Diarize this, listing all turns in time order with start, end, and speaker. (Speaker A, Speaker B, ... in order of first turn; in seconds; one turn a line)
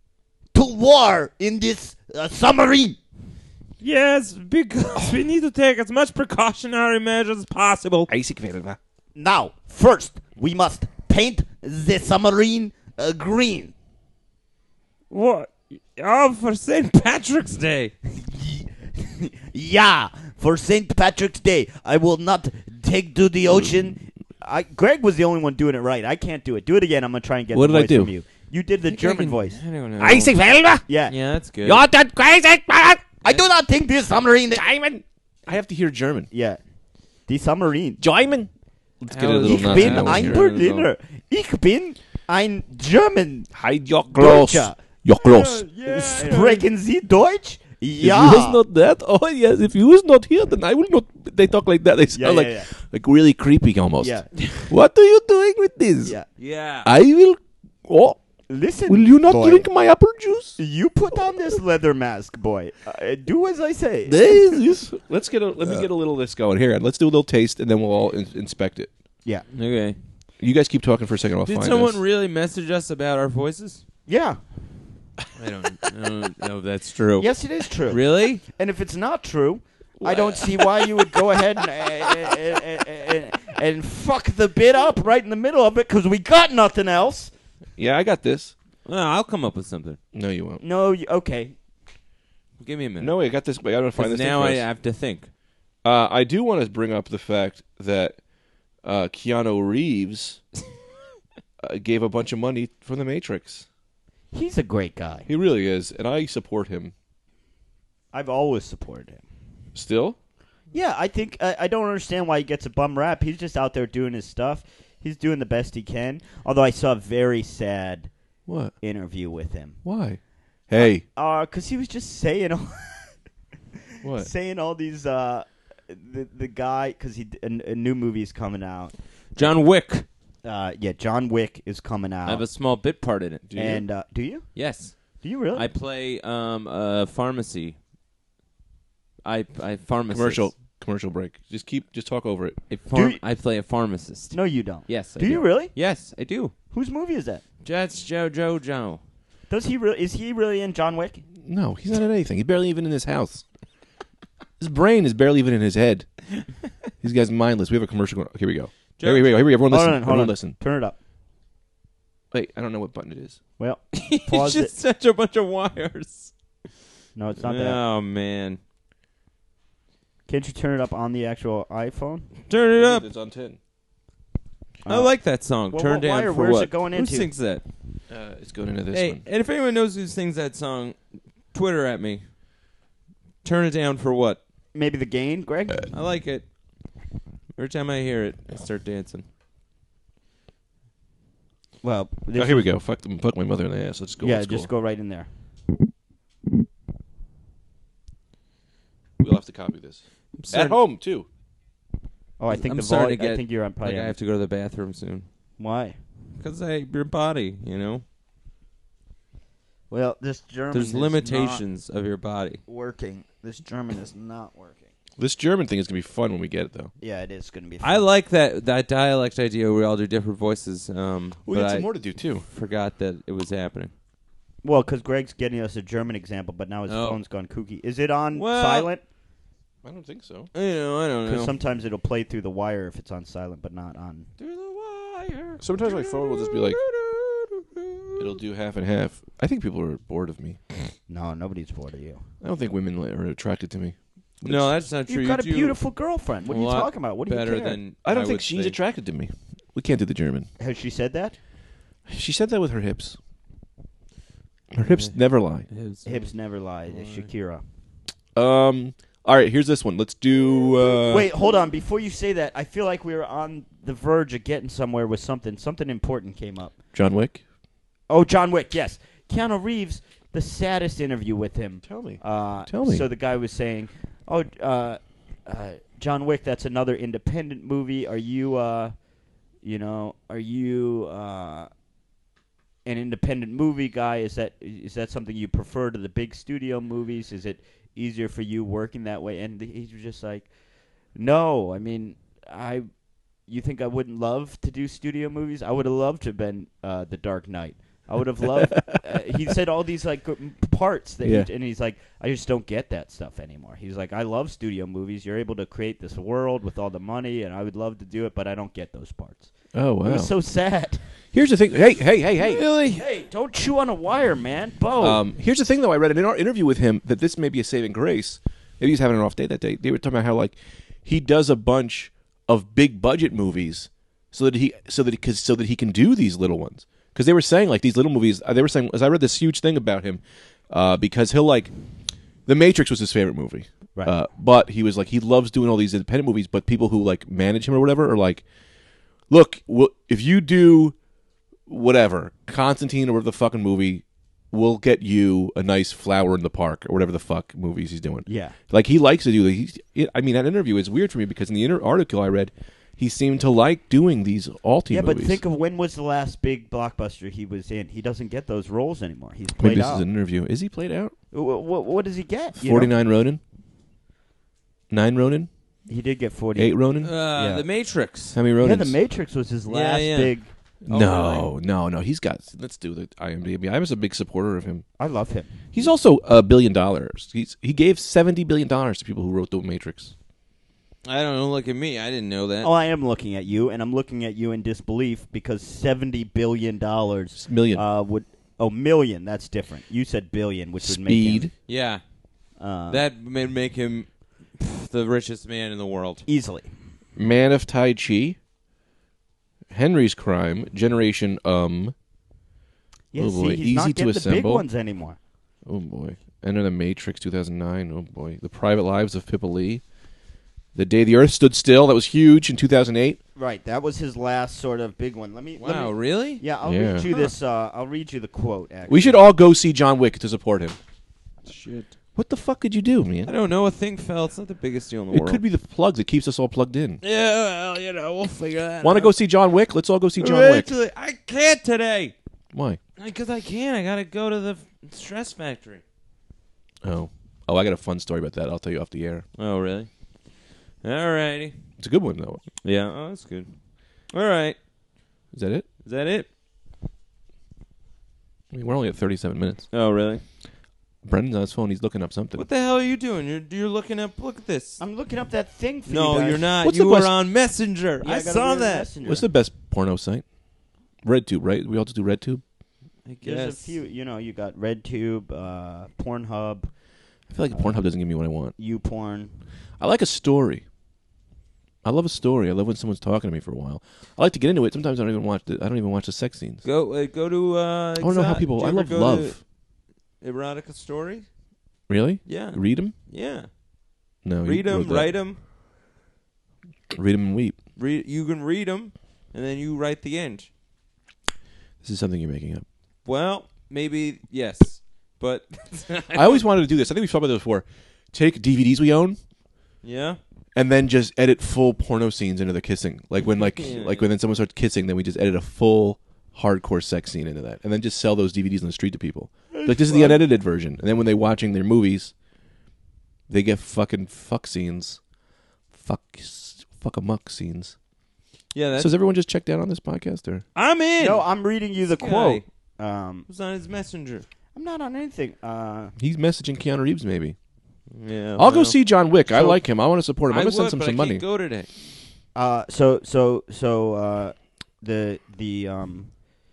Speaker A: 0.5-3.0
Speaker B: 3.8-8.1
Speaker C: 8.1-8.8
Speaker A: 9.2-13.7
Speaker B: 15.1-17.9
Speaker A: 18.1-29.6
Speaker C: 23.5-23.8
Speaker C: 27.5-28.1
Speaker B: 28.9-30.4
Speaker C: 30.0-30.9
Speaker A: 30.9-31.1
Speaker B: 31.1-31.9
Speaker C: 31.6-33.1
Speaker A: 33.2-34.6
Speaker C: 34.1-36.3
Speaker A: 36.3-36.6
Speaker A: 37.3-38.0
Speaker C: 38.0-38.5
Speaker C: 39.0-40.5
Speaker B: 39.1-40.9
Speaker A: 39.5-43.5
Speaker C: 43.5-45.7
Speaker A: 44.1-44.8
Speaker B: 45.2-46.6
Speaker A: 45.8-48.6
Speaker C: 48.0-56.1
Speaker A: 52.1-52.7
Speaker A: 54.0-54.3
Speaker B: 56.4-56.9
Speaker C: 56.9-58.2
Speaker A: 58.5-59.7
Speaker C: 58.9-60.6
Speaker A: 60.6-64.6
Speaker C: 64.1-68.9
Speaker B: 69.5-70.0
Speaker C: 70.4-72.0
Speaker B: 71.5-73.8
Speaker A: 74.1-74.4
Speaker B: 75.4-78.4
Speaker A: 77.2-87.3
Speaker C: 80.0-80.4
Speaker B: 80.2-80.6
Speaker C: 87.8-88.5
Speaker B: 88.9-90.0
Speaker C: 90.1-90.6
Speaker A: 90.6-91.5
Speaker B: 92.6-93.2
Speaker C: 93.0-94.7
Speaker B: 94.0-95.3
Speaker C: 95.8-98.2
Speaker C: 98.8-100.4
Speaker C: 101.6-103.7
Speaker A: 104.3-105.3
Speaker C: 105.3-106.9
Speaker A: 108.1-109.2
Speaker C: 109.8-110.2
Speaker A: 110.7-118.1
Speaker C: 118.5-118.8
Speaker A: 118.8-119.8
Speaker C: 119.8-121.0
Speaker A: 120.7-123.1
Speaker A: 124.0-128.9
Speaker C: 124.0-124.3
Speaker B: 129.4-130.1
Speaker A: 130.4-132.4
Speaker B: 132.3-133.5
Speaker C: 133.4-133.8
Speaker A: 133.6-135.7
Speaker B: 134.6-137.8
Speaker B: 139.2-140.6
Speaker C: 140.1-142.6
Speaker B: 142.7-146.5
Speaker A: 142.9-143.2
Speaker A: 144.3-145.7
Speaker A: 146.7-147.4
Speaker B: 147.6-149.0
Speaker A: 149.5-151.2
Speaker C: 151.4-153.4
Speaker C: 154.6-156.1
Speaker C: 157.0-160.6
Speaker B: 159.0-159.3
Speaker A: 159.7-161.0
Speaker C: 162.3-163.4
Speaker A: 163.6-164.7
Speaker B: 163.9-166.3
Speaker A: 167.2-167.8
Speaker B: 167.4-168.6
Speaker A: 170.3-172.3
Speaker B: 172.5-173.1
Speaker C: 172.8-173.6
Speaker A: 174.9-175.1
Speaker B: 174.9-177.7
Speaker A: 175.7-177.3
Speaker C: 178.1-179.2
Speaker B: 178.9-181.0
Speaker B: 181.5-182.2
Speaker B: 183.4-184.4
Speaker A: 184.7-185.9
Speaker B: 185.9-186.5
Speaker B: 187.6-189.3
Speaker A: 191.8-192.7
Speaker C: 192.3-194.7
Speaker A: 194.2-195.3
Speaker C: 199.2-201.3
Speaker B: 200.4-200.8
Speaker A: 202.4-204.2
Speaker B: 202.5-205.3
Speaker A: 205.6-206.0
Speaker B: 206.4-208.0
Speaker A: 209.9-211.6
Speaker B: 210.7-212.6
Speaker A: 212.7-214.9
Speaker C: 215.2-216.9
Speaker A: 217.0-218.1
Speaker B: 217.8-223.9
Speaker C: 221.5-222.4
Speaker A: 224.6-229.0
Speaker B: 226.9-227.2
Speaker B: 228.3-228.9
Speaker C: 229.8-230.5
Speaker B: 230.5-231.6
Speaker A: 231.2-234.3
Speaker B: 234.4-238.3
Speaker C: 235.6-236.8
Speaker C: 238.2-240.6
Speaker A: 241.1-242.2
Speaker C: 242.4-244.7
Speaker B: 244.4-245.8
Speaker A: 245.1-247.8
Speaker B: 246.5-248.8
Speaker C: 248.1-250.5
Speaker A: 250.6-251.4
Speaker C: 252.1-253.2
Speaker C: 254.7-255.7
Speaker B: 254.9-256.3
Speaker A: 256.0-257.6
Speaker B: 256.9-257.3
Speaker C: 258.4-261.3
Speaker A: 261.0-266.7
Speaker C: 266.9-267.4
Speaker A: 268.1-278.9
Speaker C: 271.8-273.1
Speaker A: 279.6-281.7
Speaker A: 282.9-290.5
Speaker A: 291.1-292.9
Speaker A: 293.5-311.0
Speaker C: 301.2-301.5
Speaker C: 309.7-310.3
Speaker C: 311.3-313.0
Speaker A: 312.4-315.2
Speaker C: 315.0-331.7
Speaker C: 332.5-338.4
Speaker C: 339.3-341.0
Speaker C: 341.7-355.4
Speaker A: 348.3-348.6
Speaker A: 354.9-360.1
Speaker C: 359.6-361.1
Speaker A: 361.3-362.9
Speaker C: 362.6-363.4
Speaker C: 364.9-365.5
Speaker A: 365.9-367.7
Speaker C: 366.6-367.1
Speaker B: 367.0-368.4
Speaker C: 368.3-368.9
Speaker A: 368.6-370.5
Speaker B: 369.7-370.4
Speaker C: 370.9-374.9
Speaker B: 370.9-371.5
Speaker A: 375.0-375.5
Speaker C: 375.7-380.1
Speaker B: 381.1-382.7
Speaker A: 382.6-391.5
Speaker C: 387.4-387.8
Speaker C: 390.8-391.5
Speaker B: 391.7-392.0
Speaker A: 392.6-393.0
Speaker B: 392.9-396.3
Speaker A: 396.3-396.7
Speaker C: 397.2-398.4
Speaker C: 399.7-401.9
Speaker A: 403.1-405.2
Speaker C: 403.1-404.6
Speaker C: 405.7-409.8
Speaker C: 410.8-413.2
Speaker A: 413.4-419.2
Speaker B: 415.6-416.4
Speaker C: 416.6-417.1
Speaker B: 417.1-417.3
Speaker C: 418.9-420.8
Speaker B: 421.4-421.9
Speaker C: 422.1-423.3
Speaker B: 423.3-425.4
Speaker C: 425.1-427.0
Speaker B: 427.0-429.1
Speaker C: 428.8-430.7
Speaker B: 430.2-432.1
Speaker C: 432.5-432.8
Speaker B: 433.0-435.8
Speaker C: 436.8-439.2
Speaker B: 439.4-439.9
Speaker B: 440.8-441.6
Speaker C: 441.8-442.4
Speaker B: 442.6-443.5
Speaker B: 444.1-444.6
Speaker C: 445.3-445.7
Speaker B: 445.8-446.3
Speaker C: 448.5-449.7
Speaker B: 449.7-450.2
Speaker C: 451.0-452.4
Speaker B: 452.4-454.8
Speaker A: 454.8-456.5
Speaker B: 455.9-458.9
Speaker C: 456.6-457.1
Speaker A: 458.0-459.3
Speaker C: 459.0-460.3
Speaker C: 461.0-462.4
Speaker B: 463.1-463.7
Speaker A: 463.2-466.7
Speaker C: 467.3-468.5
Speaker A: 468.6-469.3
Speaker C: 469.8-470.6
Speaker C: 471.8-476.6
Speaker B: 476.6-479.5
Speaker C: 478.0-479.4
Speaker B: 480.2-481.3
Speaker C: 481.9-482.9
Speaker B: 482.3-483.5
Speaker C: 484.2-485.1
Speaker B: 484.4-485.4
Speaker C: 486.9-487.6
Speaker B: 487.8-490.5
Speaker C: 491.8-492.6
Speaker B: 493.1-496.4
Speaker C: 496.1-499.2
Speaker B: 499.8-500.2
Speaker C: 500.6-512.1
Speaker B: 503.6-504.1
Speaker A: 509.5-510.2
Speaker C: 513.3-515.0
Speaker C: 515.7-517.8
Speaker B: 518.5-518.9
Speaker C: 518.8-520.4
Speaker B: 520.5-521.3
Speaker A: 521.0-523.3
Speaker B: 521.9-522.4
Speaker B: 523.3-524.3
Speaker A: 524.5-525.9
Speaker C: 526.0-527.4
Speaker B: 527.9-528.8
Speaker C: 528.4-531.2
Speaker B: 530.3-531.7
Speaker A: 532.4-536.1